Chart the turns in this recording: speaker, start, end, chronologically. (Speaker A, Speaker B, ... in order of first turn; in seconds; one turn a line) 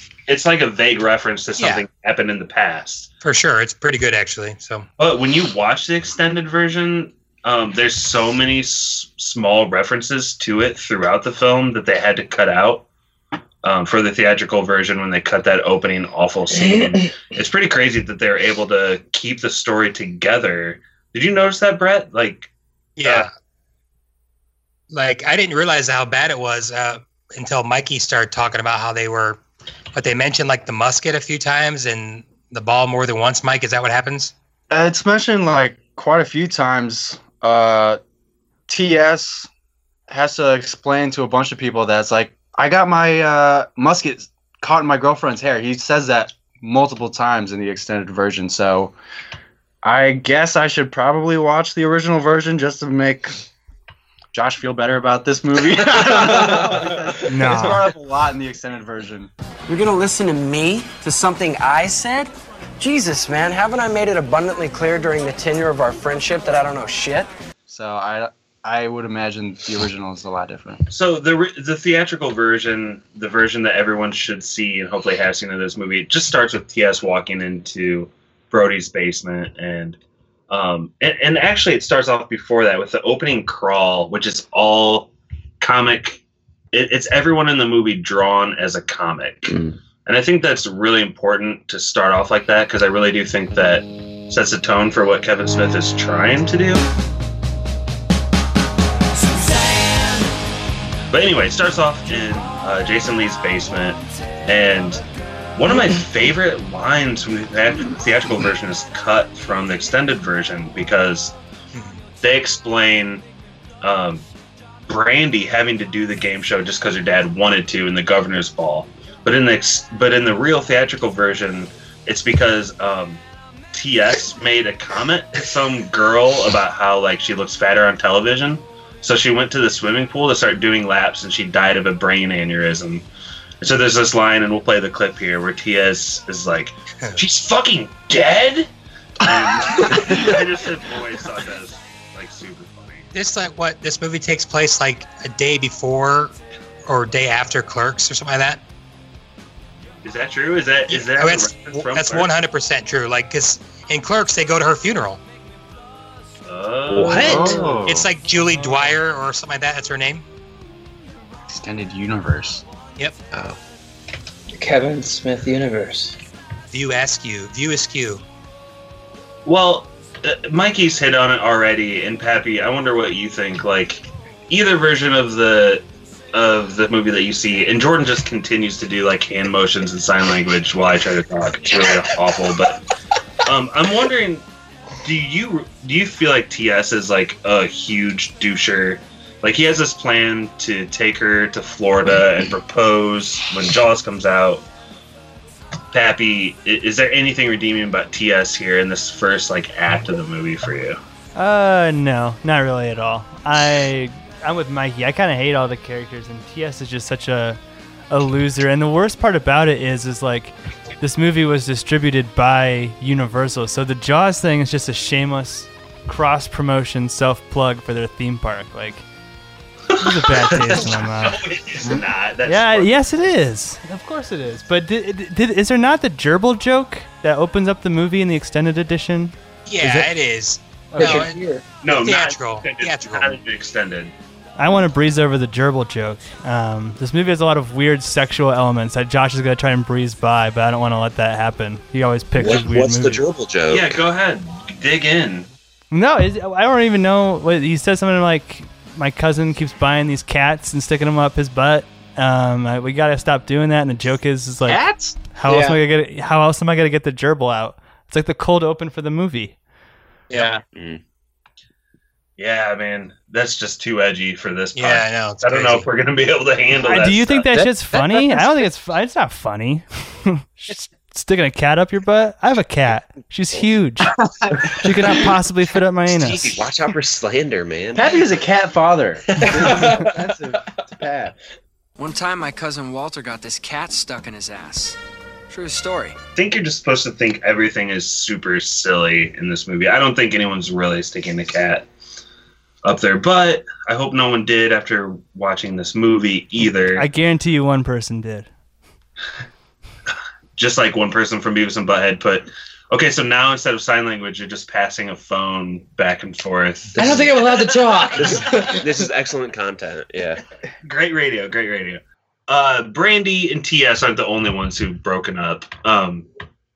Speaker A: 0.3-3.1
Speaker B: 1.6-1.9
Speaker B: 3.2-4.9
Speaker A: 5.0-12.9
Speaker A: 13.6-22.5
Speaker B: 23.0-23.3
Speaker A: 23.0-23.3
Speaker B: 24.9-29.4
Speaker B: 29.9-34.3
Speaker C: 34.7-38.0
Speaker C: 38.7-39.5
Speaker C: 40.1-49.0
Speaker C: 49.8-53.4
Speaker C: 54.3-59.3
Speaker D: 57.3-57.9
Speaker E: 59.7-67.3
Speaker C: 67.7-70.8
Speaker A: 70.9-80.0
Speaker A: 80.5-96.8
Speaker F: 89.5-89.8
Speaker A: 101.1-105.0
Speaker A: 105.6-111.3
Speaker B: 111.7-112.0
Speaker A: 112.2-113.2
Speaker A: 113.8-114.2
Speaker A: 114.9-123.2
Speaker A: 123.7-133.1
Speaker A: 133.6-138.7
Speaker A: 139.2-143.1
Speaker B: 143.1-146.3
Speaker B: 146.8-148.6
Speaker A: 150.0-152.3
Speaker B: 150.9-155.2
Speaker A: 156.5-157.8
Speaker F: 156.9-157.6
Speaker C: 157.2-158.1
Speaker B: 157.8-160.2
Speaker C: 161.5-162.6
Speaker F: 163.3-163.6
Speaker G: 164.6-166.2
Speaker B: 166.7-168.2
Speaker A: 169.4-182.8
Speaker A: 183.5-184.5
Speaker A: 185.0-194.6
Speaker A: 195.9-201.0
Speaker D: 201.3-219.1
Speaker D: 220.0-221.4
Speaker A: 220.5-223.0
Speaker D: 222.5-230.1
Speaker B: 229.7-233.4
Speaker D: 230.9-231.3
Speaker G: 231.0-231.6
Speaker A: 231.8-234.1
Speaker D: 234.6-243.2
Speaker F: 242.4-244.0
Speaker A: 243.7-245.5
Speaker D: 245.9-259.6
Speaker C: 254.7-255.2
Speaker G: 255.5-255.8
Speaker B: 260.3-260.6
Speaker G: 260.3-260.6
Speaker F: 260.7-261.0
Speaker A: 262.4-267.5
Speaker B: 264.8-265.9
Speaker D: 266.8-274.1
Speaker G: 267.5-268.5
Speaker C: 274.4-275.2
Speaker D: 274.7-276.6
Speaker F: 276.1-278.2
Speaker C: 277.9-281.4
Speaker F: 279.4-279.9
Speaker H: 282.0-285.0
Speaker H: 285.5-286.2
Speaker A: 286.4-291.9
Speaker A: 292.8-297.1
Speaker D: 296.9-298.5
Speaker A: 300.6-307.4
Speaker F: 307.0-307.3
Speaker G: 307.0-308.9
Speaker F: 308.1-310.4
Speaker A: 308.4-308.7
Speaker A: 310.8-316.3